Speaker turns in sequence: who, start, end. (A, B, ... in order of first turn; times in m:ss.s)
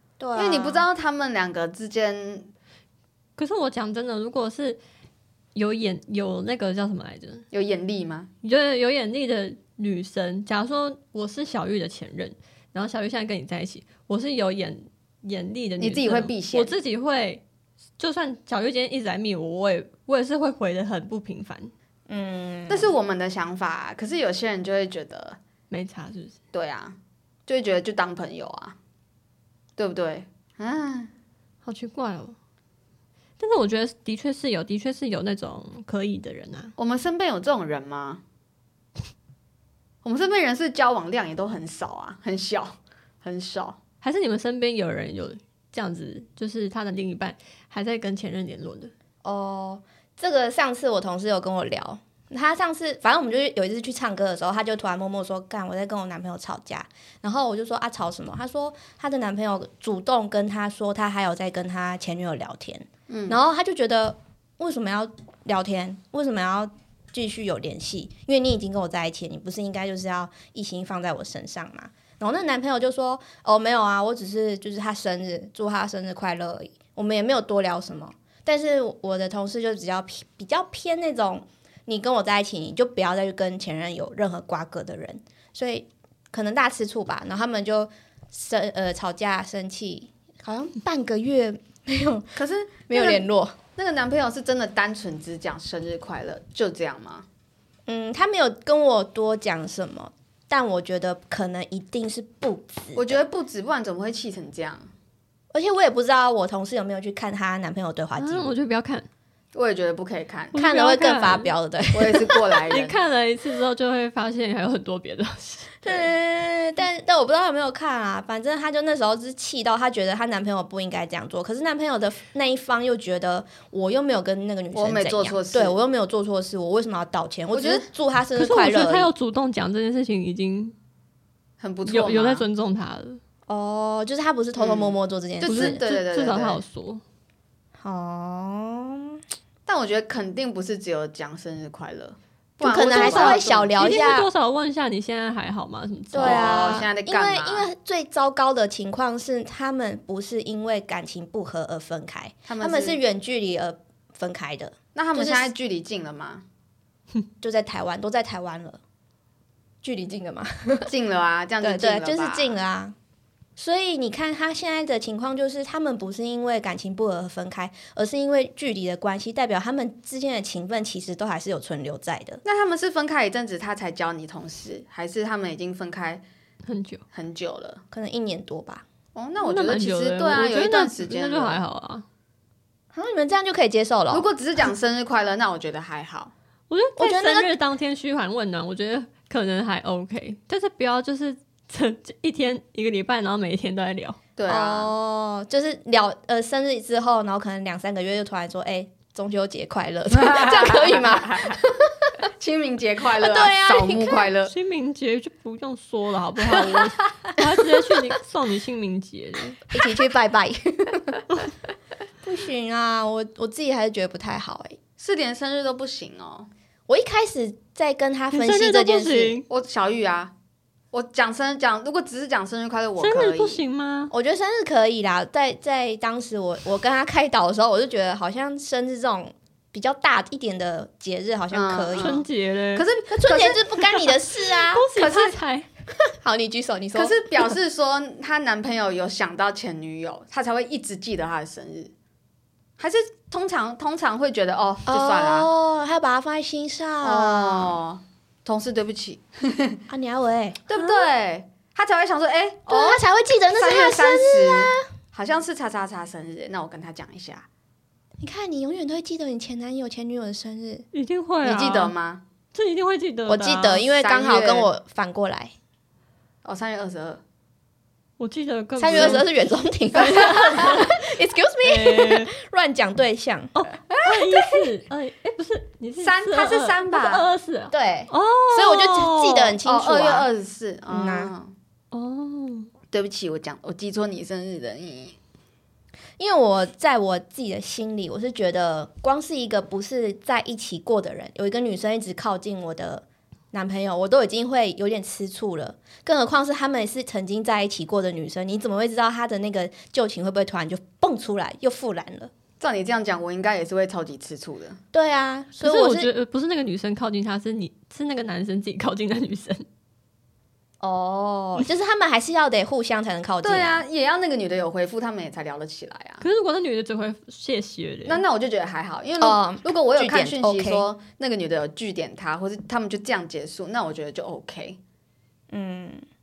0:00.2-0:00.8 A
0:00.3-0:02.5 B
0:03.4-0:04.8 C
0:05.5-0:07.4 C
0:07.5-0:08.3 B
0:08.4-0:17.4 C
0:15.8-0:16.7 B
0:18.0-0:21.7 C
0:22.1-0:22.9 A
0:22.7-0:25.4 B
0:25.7-0:26.4 C
0:26.5-0:27.0 B
0:27.5-0:28.8 B
0:29.8-0:31.1 B
0:31.6-0:32.4 C
0:33.4-0:36.7 C
0:36.8-0:38.2 B
0:40.0-0:43.8 B
0:44.0-0:48.9 C
0:49.2-1:32.4 A
1:03.1-1:03.4 B
1:32.4-1:37.2 B
1:32.9-1:33.6 A
1:37.9-1:43.2 A
1:42.9-1:44.9 B
1:45.5-1:48.5 A
1:48.2-1:49.1 C
1:49.5-1:50.5 B
1:50.5-1:51.5 C
1:50.5-1:52.6 A
1:51.9-1:53.0 B
1:52.7-1:56.1 C
1:55.8-2:09.1 A
2:04.7-2:05.7 B
2:07.5-2:07.9 B
2:08.4-2:10.7 C
2:11.6-2:12.4 B
2:11.8-2:13.2 C
2:13.5-2:15.8 A
2:14.6-2:16.6 B
2:15.4-2:17.0 C
2:17.8-2:19.2 A
2:19.7-2:24.1 B
2:22.6-2:24.3 A
2:22.8-2:26.8 C
2:26.1-2:35.5 A
2:26.1-2:27.7 B
2:32.5-2:33.0 B
2:34.9-2:36.4 B
2:37.4-2:38.8 A
2:39.8-2:40.9 A
2:40.9-2:42.6 B
2:41.6-2:42.9 A
2:43.6-2:52.4 A
2:52.4-2:56.2 B
2:56.6-2:57.0 C
2:57.1-2:57.8 B
2:57.9-2:58.8 A
2:59.1-3:01.6 B
2:59.4-3:02.0 C
3:02.9-3:04.3 A
3:04.1-3:06.3 B
3:06.7-3:14.2 C
3:07.0-3:07.5 A
3:14.4-3:14.9 B
3:14.5-3:22.3 A
3:20.1-3:21.6 B
3:22.2-3:24.5 B
3:23.2-3:24.3 A
3:24.4-3:29.6 C
3:29.7-3:31.2 A
3:32.2-3:34.8 A
3:35.0-3:36.5 B
3:36.9-3:39.4 A
3:38.3-3:39.5 C
3:39.5-3:40.3 B
3:40.9-3:43.6 B
3:43.0-3:44.1 C
3:44.1-3:52.2 A
3:51.5-3:52.2 B
3:52.0-3:52.8 C
3:52.7-3:53.8 B
3:53.1-3:54.9 A
3:54.5-3:55.7 C
3:55.0-3:55.4 B
3:56.1-3:57.5 A
3:56.9-4:01.9 B
4:02.8-4:05.5 B
4:04.9-4:07.8 A
4:07.0-4:09.8 B
4:09.9-4:10.6 A
4:10.7-4:17.5 B
4:10.7-4:11.0 C
4:12.7-4:14.8 A
4:18.2-4:20.8 A
4:20.9-4:21.9 C
4:21.4-4:22.2 B
4:22.5-4:23.8 C
4:23.3-4:25.5 A
4:23.8-4:24.7 B
4:26.4-4:27.2 B
4:28.2-4:29.3 C
4:28.8-4:33.5 A
4:28.9-4:29.2 B
4:30.0-4:30.9 C
4:31.6-4:32.3 C
4:33.5-4:39.6 C
4:36.0-4:37.2 B
4:37.7-4:40.3 A
4:39.6-4:41.5 B
4:40.9-4:41.3 A
4:41.9-4:42.7 C
4:42.9-4:45.2 B
4:46.2-5:02.3 A
5:02.6-5:04.8 B
5:04.9-5:06.1 A
5:05.6-5:09.6 C
5:10.8-5:13.8 A
5:13.4-5:16.2 B
5:16.2-5:18.2 C
5:18.1-5:24.8 B
5:19.2-5:20.8 A
5:25.5-5:26.0 A